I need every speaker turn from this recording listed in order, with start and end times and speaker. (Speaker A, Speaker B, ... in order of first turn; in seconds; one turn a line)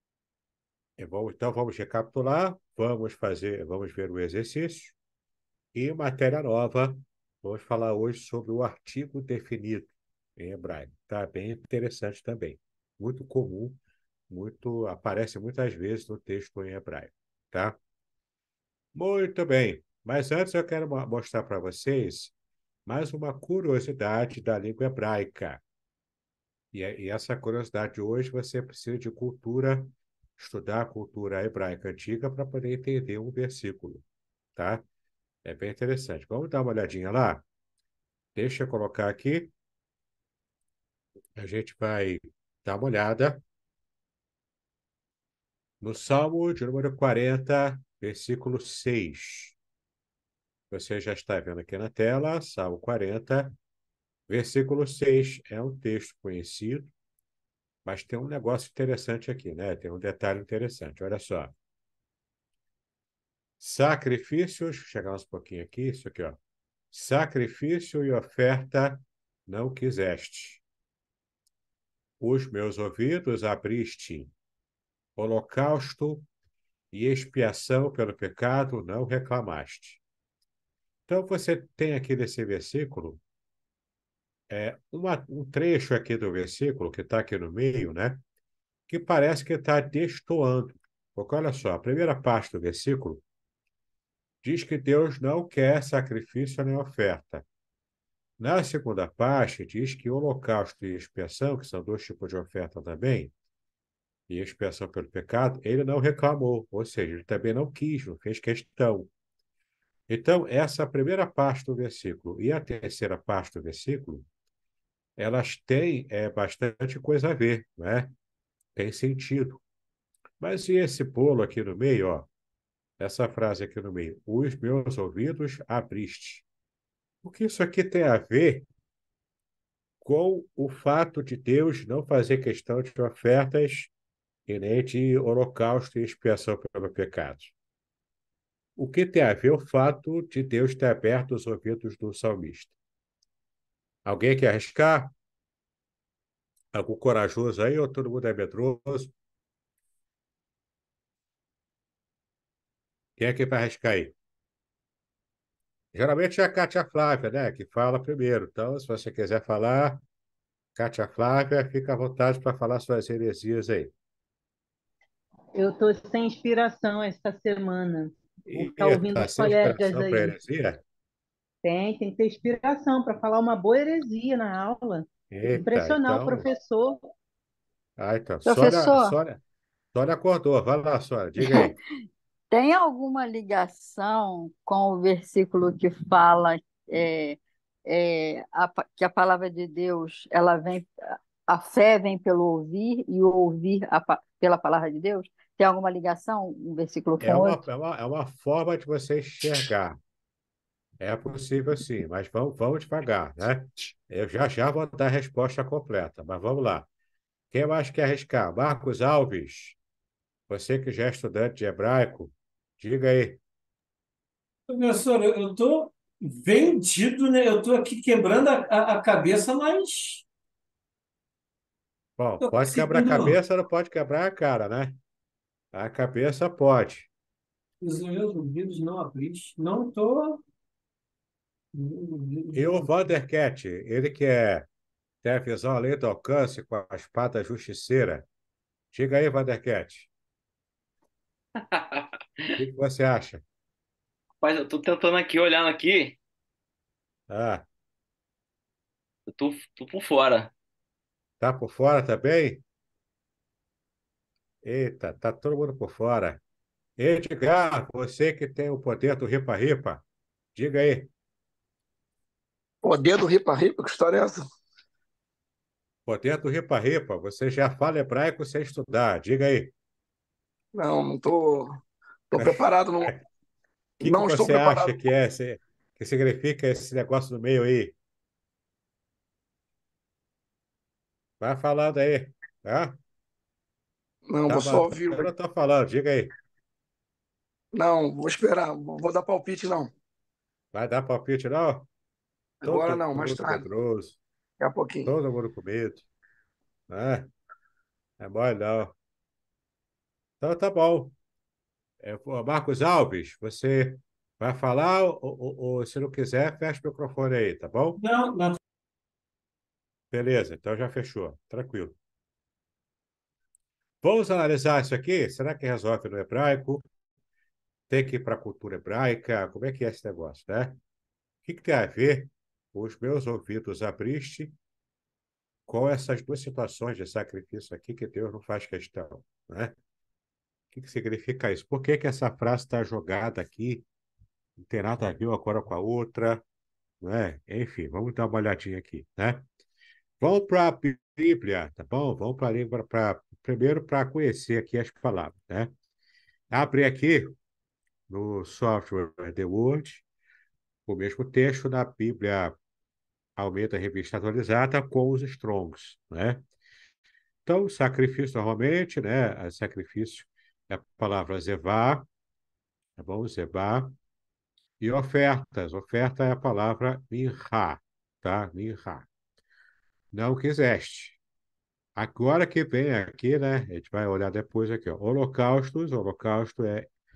Speaker A: 1.0-5.0
Speaker A: 5.7-17.8
Speaker A: 18.9-22.3
Speaker A: 22.9-25.6
Speaker A: 26.7-34.0
Speaker A: 34.5-34.8
Speaker A: 35.4-37.4
Speaker A: 38.3-39.5
Speaker A: 41.4-43.4
Speaker A: 45.8-49.5
Speaker A: 50.7-53.5
Speaker A: 54.3-56.9
Speaker A: 57.8-61.5
Speaker A: 63.6-66.4
Speaker A: 66.9-70.6
Speaker A: 72.2-74.3
Speaker A: 75.2-76.3
Speaker A: 76.9-80.0
Speaker A: 81.1-83.2
Speaker A: 84.5-88.2
Speaker A: 88.9-93.2
Speaker A: 94.4-97.4
Speaker A: 98.4-103.3
Speaker A: 104.3-109.1
Speaker A: 110.1-114.3
Speaker A: 115.2-118.1
Speaker A: 118.8-119.6
Speaker A: 120.4-122.3
Speaker A: 123.0-126.4
Speaker A: 127.2-128.7
Speaker A: 130.0-133.9
Speaker A: 134.5-137.5
Speaker A: 138.8-142.8
Speaker A: 144.1-145.1
Speaker A: 146.7-149.1
Speaker A: 153.2-154.1
Speaker A: 155.9-160.0
Speaker A: 160.8-163.9
Speaker B: 165.5-170.4
Speaker A: 168.5-170.8
Speaker B: 171.6-177.1
Speaker A: 175.3-176.4
Speaker A: 178.0-179.4
Speaker C: 178.4-179.1
Speaker A: 179.9-181.8
Speaker C: 182.5-197.6
Speaker A: 197.2-200.0
Speaker A: 201.0-206.9
Speaker A: 207.5-209.8
Speaker A: 210.5-213.4
Speaker D: 214.7-220.2
Speaker A: 222.2-225.0
Speaker D: 222.4-223.4
Speaker A: 225.7-227.1
Speaker D: 227.8-230.4
Speaker D: 231.7-232.9
Speaker A: 232.5-234.7
Speaker A: 235.2-238.3
Speaker A: 238.9-240.1
Speaker E: 241.6-242.5
Speaker A: 242.5-243.4
Speaker E: 244.4-246.2
Speaker A: 247.3-247.7
Speaker E: 249.3-250.5
Speaker A: 251.4-252.6
Speaker A: 254.6-256.4
Speaker A: 257.0-260.0
Speaker A: 260.5-261.1
Speaker F: 262.8-264.4
Speaker A: 266.1-269.7
Speaker F: 270.8-271.8
Speaker F: 272.3-273.1
Speaker A: 272.3-273.2
Speaker A: 274.0-277.9
Speaker F: 274.0-274.9
Speaker A: 281.4-283.0
Speaker F: 284.3-285.2
Speaker A: 284.4-286.3
Speaker F: 287.8-289.9
Speaker A: 290.7-291.9
Speaker F: 292.6-293.6
Speaker A: 292.6-294.2
Speaker F: 294.6-295.1
Speaker A: 295.1-296.1
Speaker A: 296.9-297.3
Speaker A: 298.2-298.9
Speaker A: 300.4-301.1
Speaker A: 302.0-308.0
Speaker D: 308.0-308.6
Speaker A: 310.1-311.9
Speaker A: 314.0-316.8
Speaker A: 317.9-320.8
Speaker A: 321.4-324.5
Speaker A: 325.7-329.8
Speaker A: 330.7-333.9
Speaker A: 334.6-336.4
Speaker A: 337.0-339.4
Speaker A: 340.2-345.7
Speaker A: 346.5-347.4
Speaker A: 348.1-350.0
Speaker A: 350.9-352.6
Speaker A: 353.4-356.4
Speaker A: 357.4-362.1
Speaker A: 363.0-363.9
Speaker A: 364.8-369.1
Speaker A: 370.1-371.2
Speaker A: 371.9-376.9